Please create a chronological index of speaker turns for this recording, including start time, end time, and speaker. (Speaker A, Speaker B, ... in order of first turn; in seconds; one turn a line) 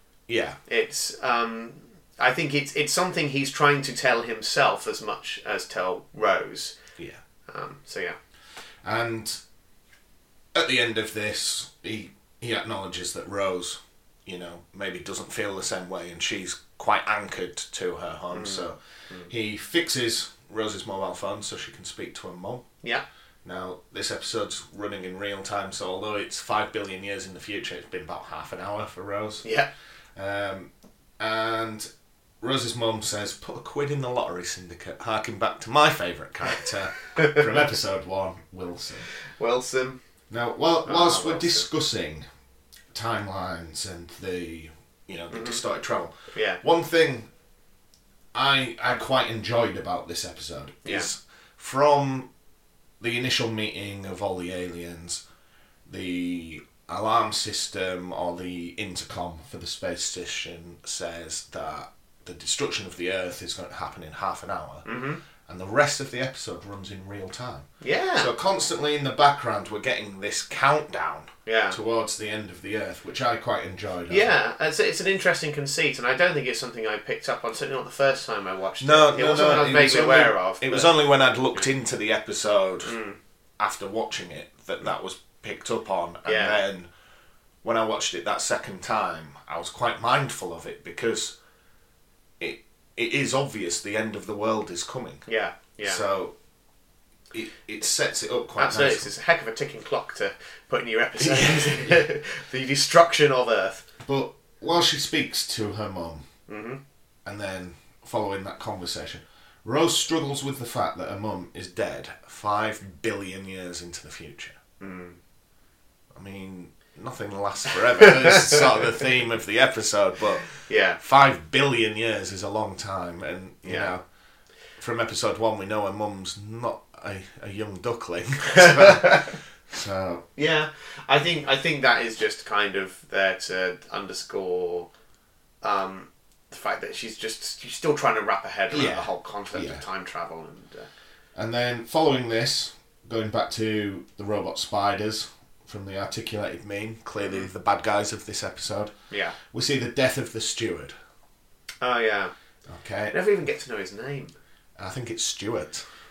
Speaker A: 0.3-0.6
Speaker B: 0.7-6.8
Speaker B: 7.5-8.2
Speaker A: 8.8-9.4
Speaker A: 10.5-18.8
Speaker B: 18.3-19.3
Speaker A: 19.3-22.6
Speaker A: 23.4-29.4
Speaker B: 29.4-29.7
Speaker A: 30.1-31.9
Speaker A: 32.4-39.1
Speaker B: 39.4-40.0
Speaker A: 40.3-42.2
Speaker B: 40.8-41.7
Speaker A: 42.9-47.3
Speaker B: 45.3-45.6
Speaker B: 46.3-46.6
Speaker A: 48.3-52.3
Speaker A: 53.0-55.2
Speaker A: 55.9-64.8
Speaker B: 64.8-65.2
Speaker A: 65.5-74.3
Speaker B: 67.8-68.3
Speaker B: 71.5-71.8
Speaker B: 74.1-80.9
Speaker A: 78.8-82.9
Speaker B: 82.8-83.2
Speaker A: 83.6-86.9
Speaker B: 86.2-86.6
Speaker A: 87.6-91.3
Speaker A: 92.4-95.2
Speaker B: 95.3-96.0
Speaker A: 95.8-96.3
Speaker A: 97.3-99.1
Speaker B: 98.6-103.8
Speaker A: 101.2-102.0
Speaker A: 104.0-106.2
Speaker B: 106.5-106.8
Speaker A: 107.2-114.6
Speaker B: 114.8-115.2
Speaker A: 116.1-124.0
Speaker B: 118.0-118.6
Speaker B: 120.6-121.0
Speaker B: 123.6-123.9
Speaker A: 124.8-130.2
Speaker B: 128.6-129.3
Speaker B: 130.4-134.9
Speaker B: 135.6-140.9
Speaker A: 138.7-139.8
Speaker A: 141.3-148.9
Speaker B: 147.2-147.5
Speaker B: 149.1-149.3
Speaker A: 149.5-150.9
Speaker B: 151.8-152.3
Speaker A: 152.7-153.1
Speaker B: 153.1-154.3
Speaker A: 154.8-155.8